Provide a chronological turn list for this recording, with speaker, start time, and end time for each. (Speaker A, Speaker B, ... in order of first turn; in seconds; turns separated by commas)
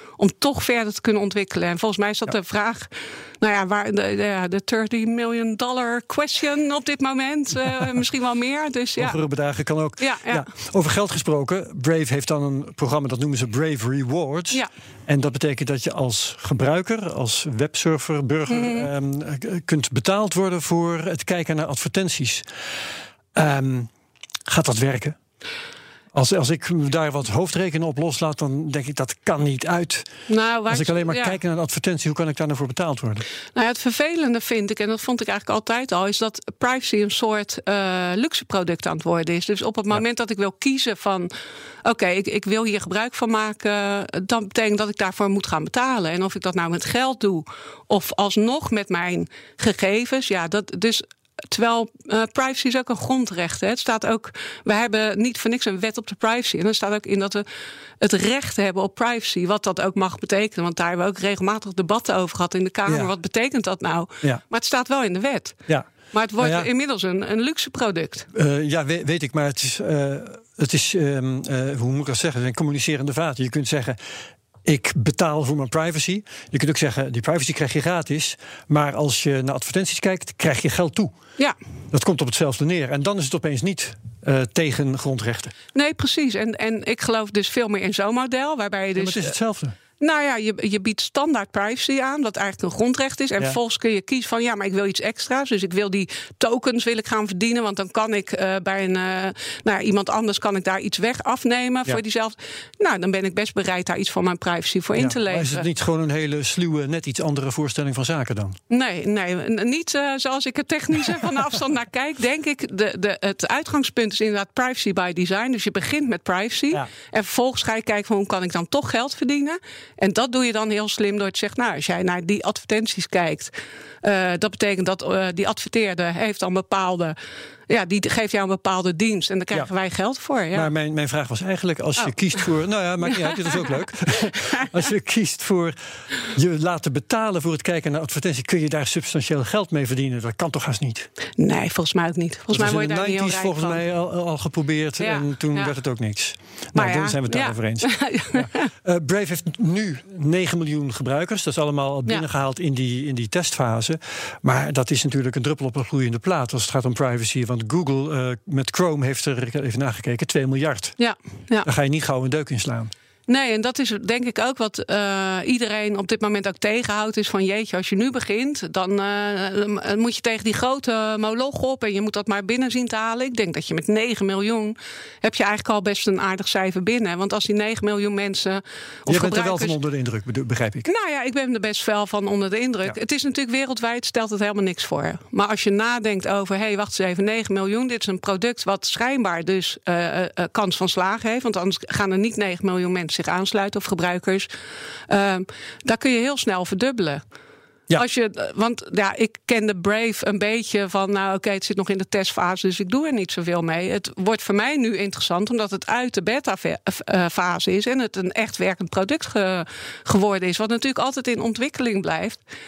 Speaker A: 0.2-9.2, Speaker B: 9.0-22.5, Speaker A: 10.0-10.4, Speaker A: 18.5-18.9, Speaker B: 23.3-23.9, Speaker B: 24.5-25.2, Speaker B: 26.1-30.1, Speaker A: 30.3-31.4, Speaker B: 30.7-33.2, Speaker A: 33.5-41.3, Speaker A: 41.8-57.4, Speaker A: 58.0-68.3, Speaker B: 62.9-63.1, Speaker B: 66.4-66.7, Speaker B: 68.3-74.0, Speaker B: 74.6-81.1, Speaker B: 81.9-85.5, Speaker A: 85.7-89.3, Speaker B: 89.0-89.8, Speaker A: 90.0-105.6, Speaker B: 105.0-108.6, Speaker A: 108.7-123.5, Speaker A: 124.0-127.2, Speaker A: 127.7-130.7, Speaker B: 130.5-141.1, Speaker A: 141.4-143.8, Speaker B: 142.5-161.0, Speaker A: 145.0-145.7, Speaker A: 146.7-148.7, Speaker A: 161.0-161.7, Speaker B: 161.6-162.9, Speaker A: 163.3-179.8, Speaker B: 179.1-180.9, Speaker A: 180.8-194.5, Speaker A: 195.1-197.2, Speaker A: 197.9-212.4